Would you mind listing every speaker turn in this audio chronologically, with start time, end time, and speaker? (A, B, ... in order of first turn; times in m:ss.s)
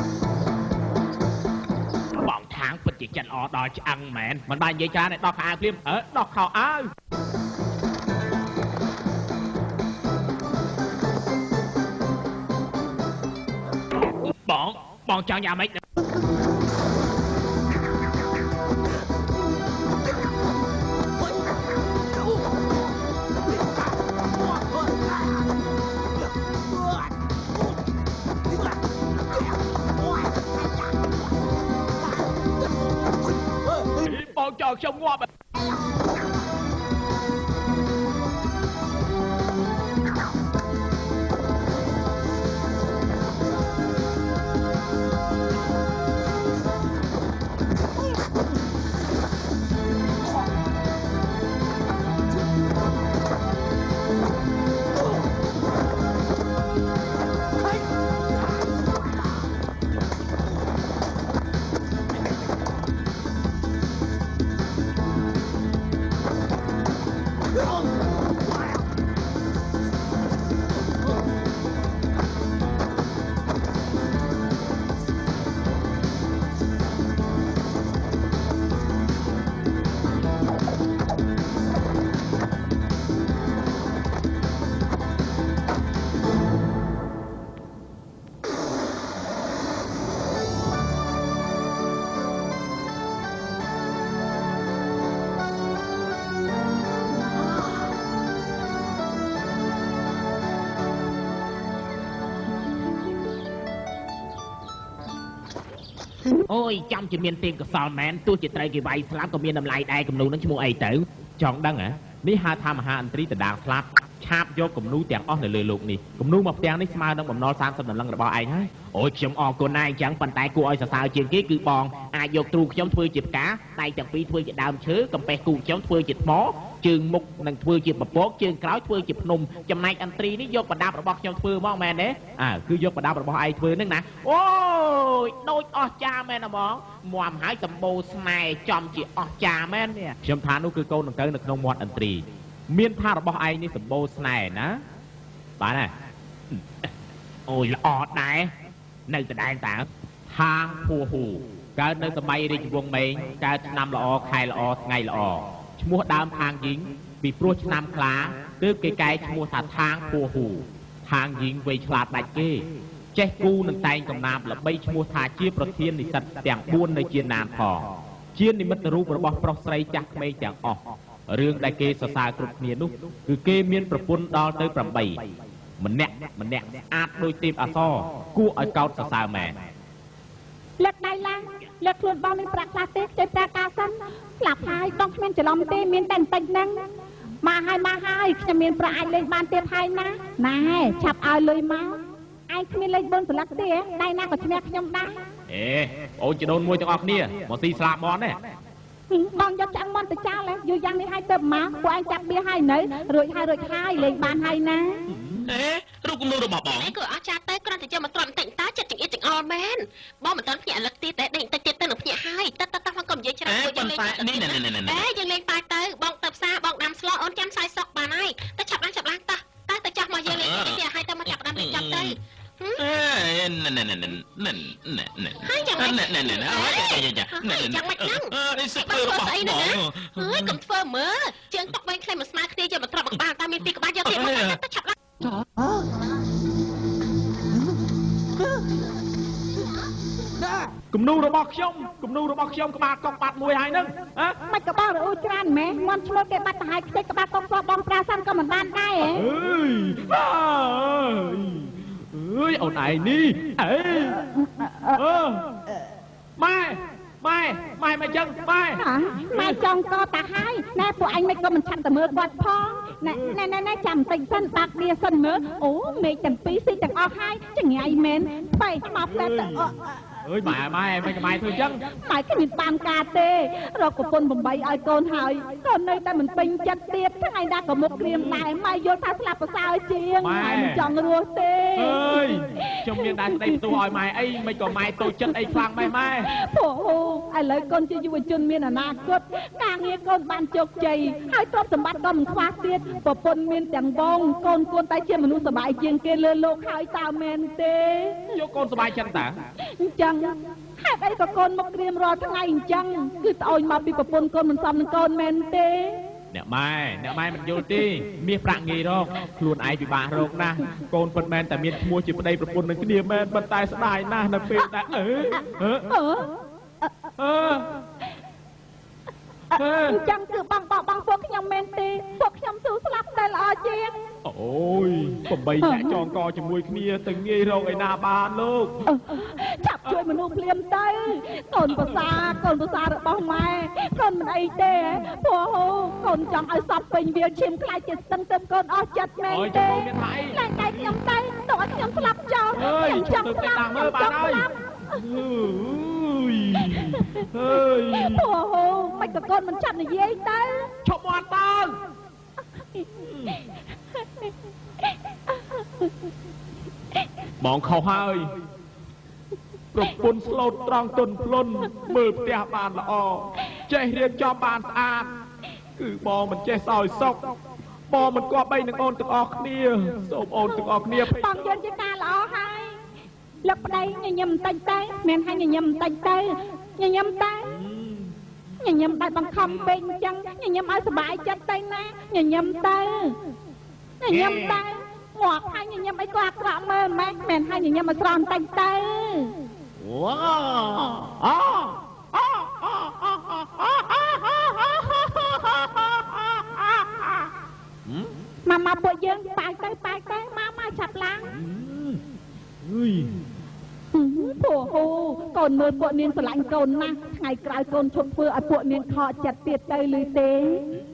0:02.1-0:06.9 A
0:14.3-0:15.8 A
0:34.0-0:35.3 A
1:46.5-2:24.8 A
2:25.6-2:25.9 A
2:26.5-2:26.9 A
2:27.5-2:28.5 A
2:29.1-2:55.2 A
2:55.8-2:59.7 A
3:00.8-3:06.9 B
3:07.4-3:15.3 B
3:15.5-3:18.4 A
3:19.1-3:25.1 B
3:25.1-3:25.5 A
3:25.4-3:26.9 C
3:26.7-3:42.8 D
3:33.4-3:35.1 C
3:40.2-3:42.2 C
3:42.8-3:50.6 C
3:45.4-3:55.0 D
3:54.0-3:54.6 C
4:00.9-4:04.4 A
4:04.4-4:09.3 B
4:09.0-4:14.2 A
4:14.3-4:15.0 B
4:15.0-4:15.6 A
4:16.4-4:19.6 A
4:18.7-4:29.8 B
4:29.1-4:31.8 A
4:31.9-4:43.7 B
4:38.0-4:38.4 A
4:40.2-4:40.9 A
4:41.8-4:46.3 A
4:46.3-4:58.3 B
4:58.3-4:59.4 A
4:59.6-5:06.0 B
5:06.3-5:15.9 A
5:15.8-5:16.9 B
5:17.2-5:17.8 A
5:19.5-5:20.0 A
5:19.9-5:24.0 B
5:24.2-5:28.8 A
5:25.6-5:26.0 B
5:28.8-5:44.5 B
5:31.6-5:32.1 A
5:39.3-5:40.4 A
5:42.5-5:48.3 A
5:46.7-5:47.2 B
5:47.9-5:50.7 B
5:50.8-5:51.8 A
5:53.0-5:53.4 A
5:57.4-5:58.3 A
5:59.7-6:05.1 A
6:05.8-6:07.4 A
6:07.9-6:11.6 A
6:10.4-6:12.8 B
6:13.4-6:17.6 B
6:17.4-6:18.1 A
6:18.6-6:23.2 B
6:24.0-6:29.3 B
6:24.1-6:24.6 A
6:29.8-6:37.3 A
6:37.8-6:38.1 A
6:38.4-6:41.3 B
6:41.3-6:42.0 A
6:42.6-6:43.2 A
6:43.9-6:50.8 B